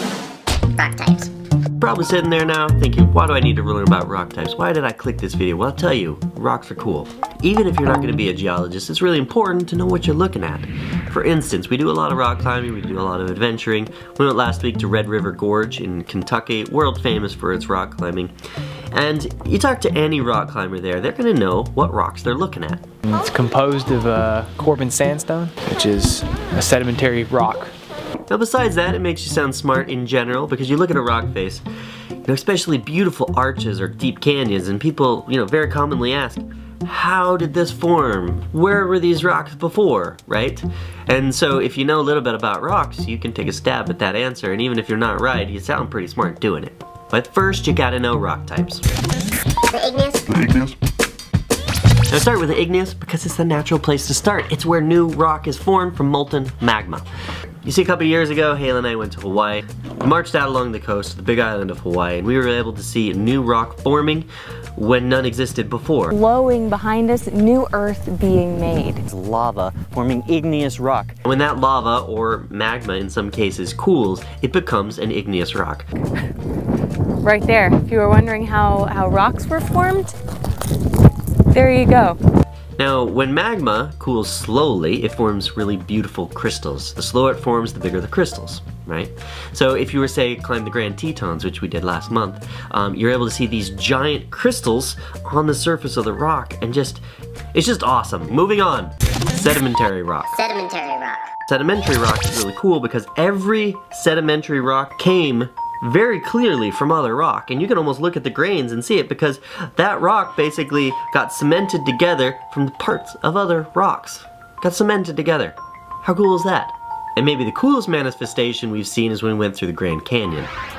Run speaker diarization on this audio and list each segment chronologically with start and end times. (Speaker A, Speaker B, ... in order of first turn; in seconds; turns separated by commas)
Speaker A: 0.8-1.3, Speaker B: 1.8-18.3, Speaker B: 18.9-22.8, Speaker C: 23.0-27.7, Speaker B: 28.3-31.6, Speaker B: 32.2-48.8, Speaker A: 49.7-50.4, Speaker B: 52.1-57.0, Speaker B: 57.6-66.1, Speaker D: 66.1-69.0, Speaker E: 69.0-71.2, Speaker B: 71.2-75.9, Speaker D: 77.2-80.1, Speaker D: 81.5-82.2, Speaker B: 82.8-97.0, Speaker B: 97.5-100.4, Speaker A: 100.3-101.3, Speaker B: 101.5-120.5